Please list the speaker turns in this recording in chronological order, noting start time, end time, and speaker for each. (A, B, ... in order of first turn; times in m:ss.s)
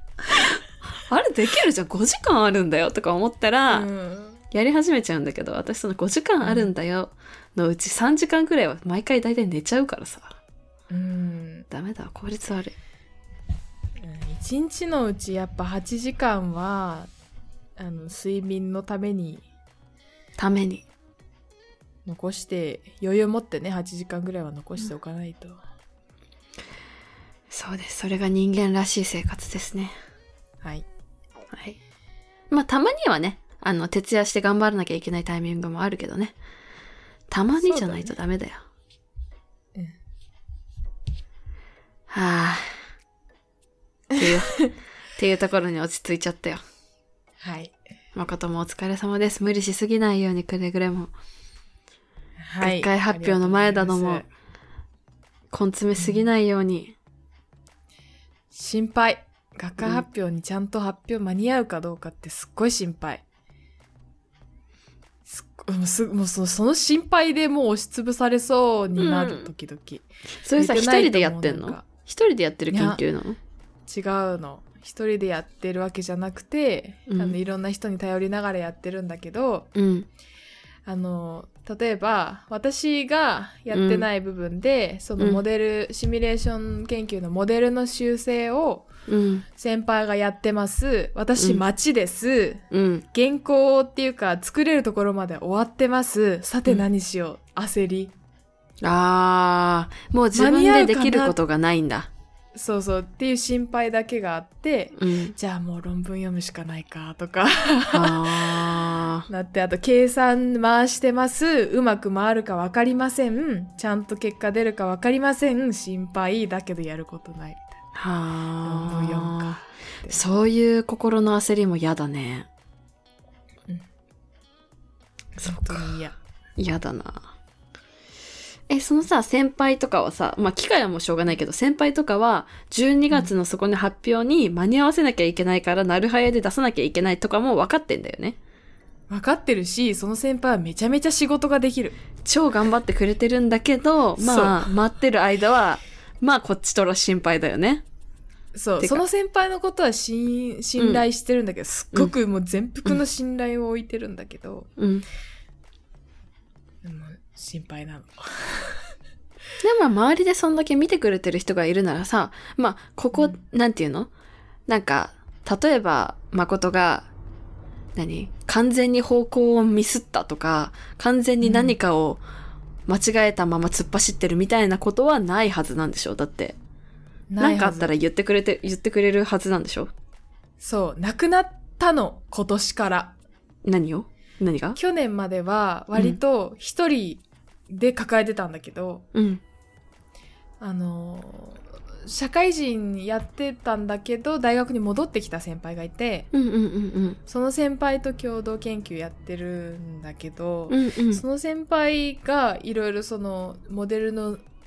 0:00.2-0:03.9 A
0:03.7-0:04.4 B
0:04.5-0:10.4 A
0:06.4-0:06.7 B
0:10.9-0:11.7 B
0:11.7-0:12.8 A
0:14.0-0:17.1 B
0:17.8-0:19.5 B
0:20.4-0:20.8 A
0:22.0-0:25.6 B
0:27.5-0:30.0 A
0:31.5-0:31.8 A
0:32.5-0:36.3 A
0:37.3-0:38.6 A
0:37.6-0:38.2 B
0:42.1-0:42.8 A
0:44.1-0:44.7 B
0:44.2-0:44.6 A
0:45.2-0:46.6 A
0:47.4-0:47.8 B
0:48.1-0:51.1 A
0:52.4-0:54.2 B
0:52.6-0:54.3 A
0:55.5-0:56.9 A
0:56.0-0:56.2 B
0:58.5-1:03.2 B
1:05.3-1:11.8 B
1:08.9-1:09.5 A
1:10.4-1:13.4 A
1:12.7-1:13.0 B
1:13.9-1:19.7 B
1:17.1-1:17.4 A
1:19.7-1:20.1 A
1:20.8-1:28.9 B
1:23.7-1:24.1 A
1:29.1-1:29.4 A
1:29.5-1:38.1 B
1:31.4-1:31.6 A
1:32.7-1:33.0 A
1:38.8-1:42.1 A
1:40.3-1:41.4 B
1:42.5-1:57.7 B
1:45.0-1:45.4 A
1:47.9-1:49.3 A
1:57.9-2:02.5 A
1:58.6-2:00.3 B
2:05.4-2:05.9 A
2:05.4-2:06.2 B
2:06.6-2:07.3 A
2:08.7-2:18.4 A
2:19.1-2:21.9 B
2:22.2-2:27.8 A
2:24.2-2:24.7 B
2:28.5-2:34.7 B
2:30.8-2:31.0 A
2:34.8-2:35.0 A
2:36.8-2:38.8 B
2:39.6-2:44.1 A
2:43.1-2:43.4 B
2:44.7-2:47.1 A
2:47.9-2:52.2 A
2:51.4-2:51.8 B
2:52.9-2:56.6 A
2:57.3-2:57.9 B
2:57.4-2:59.9 A
3:00.6-3:03.2 B
3:03.6-3:04.8 A
3:04.8-3:09.1 B
3:09.1-3:09.4 A
3:10.6-3:16.3 B
3:16.3-3:17.2 A
3:17.2-3:24.4 B
3:20.7-3:21.2 A